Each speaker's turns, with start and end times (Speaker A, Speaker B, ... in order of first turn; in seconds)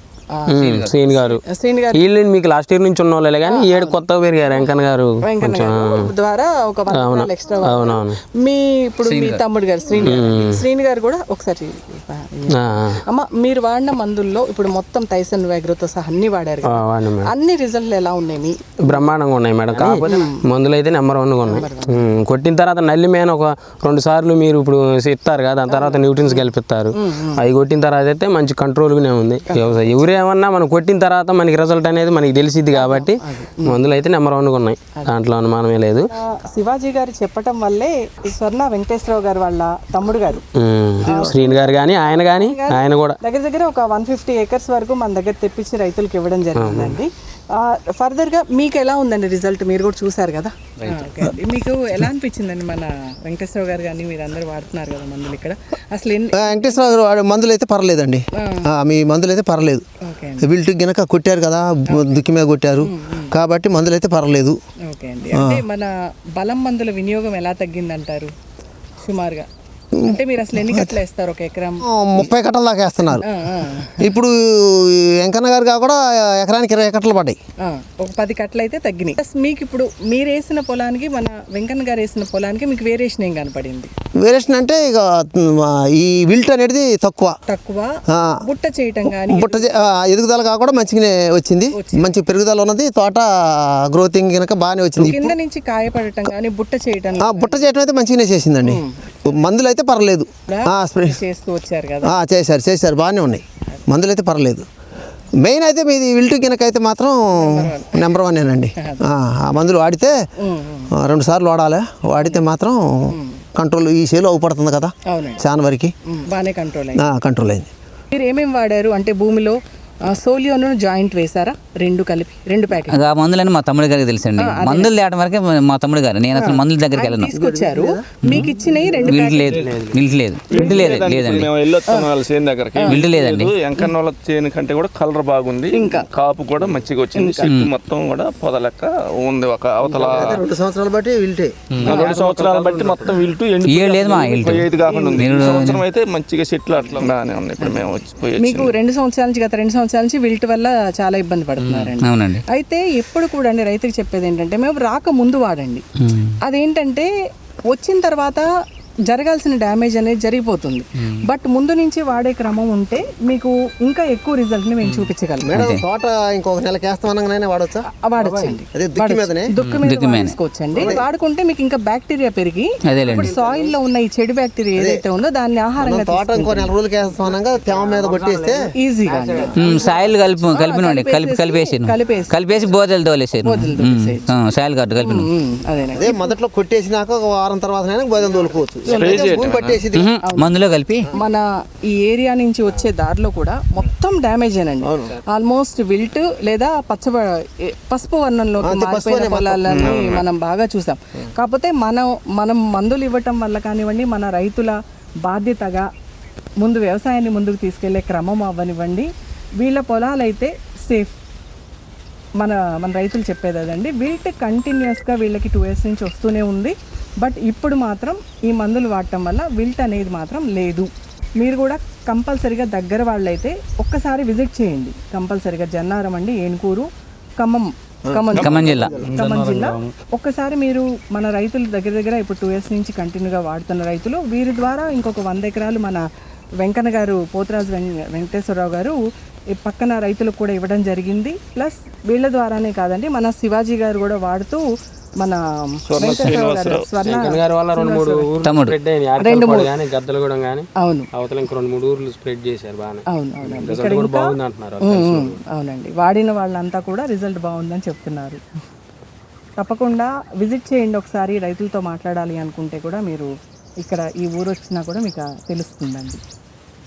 Speaker A: 0.5-1.4, 1.9-6.1, 6.9-8.2, 10.0-10.6, 12.5-13.0, 16.6-17.3, 18.9-36.1, 40.6-43.2, 46.6-47.0, 129.5-130.0, 141.8-143.2, 247.0-255.4
Speaker B: 0.6-0.9, 9.0-9.4, 122.9-127.3, 129.0-131.5, 132.9-133.5, 137.4-137.7, 143.6-145.8, 151.6-152.4, 156.0-156.3, 165.5-165.8, 169.8-170.3, 172.8-173.3, 179.6-185.3, 189.9-191.1, 228.4-228.9, 248.4-248.8
Speaker C: 1.1-2.0, 3.5-4.0, 5.2-19.1, 19.8-20.4, 21.4-22.1, 25.7-27.4, 29.5-29.8, 32.7-33.8, 36.1-40.4, 41.0-41.7, 42.3-56.9, 58.4-58.7, 60.0-60.5, 61.9-62.2, 62.8-63.3, 64.8-68.3, 69.0-69.5, 70.0-71.9, 73.2-74.1, 77.6-83.9, 87.5-89.7, 91.7-92.1, 95.0-97.6, 98.6-99.2, 100.5-102.1, 107.3-108.1, 110.4-110.9, 112.2-112.4, 113.1-113.4, 115.1-115.4, 116.1-117.0, 118.1-123.0, 124.4-124.9, 126.3-129.7, 130.5-130.8, 132.8-133.0, 135.7-136.1, 137.1-137.5, 141.8-142.2, 144.8-145.6, 147.6-147.8, 148.4-155.8, 156.4-157.1, 157.7-158.5, 159.1-165.7, 168.0-176.7, 178.7-182.3, 183.4-184.3, 185.0-186.3, 190.2-190.5, 191.1-205.9, 206.6-211.2, 212.4-226.9, 227.4-236.0, 236.6-239.0, 239.5-244.6, 245.2-248.3, 249.2-249.7, 250.8-251.1, 253.1-258.4, 259.6-263.3, 263.8-266.2
Speaker D: 56.3-59.8, 60.4-64.6, 65.3-65.6, 70.0-71.0, 71.8-73.3, 74.0-77.4, 84.2-87.4, 88.1-88.4, 89.2-95.3, 97.2-101.2, 102.0-104.7, 105.4-110.2, 110.9-115.9, 116.9-117.7, 127.3-128.0, 140.1-141.7, 165.4-167.8, 168.7-169.5, 170.8-171.0, 174.8-175.0, 175.8-178.6, 185.9-190.1, 194.8-195.2, 198.6-200.0, 228.1-229.2
Speaker E: 130.5-140.4, 141.8-148.7, 188.9-189.8, 199.7-200.2, 228.3-229.9, 245.9-247.0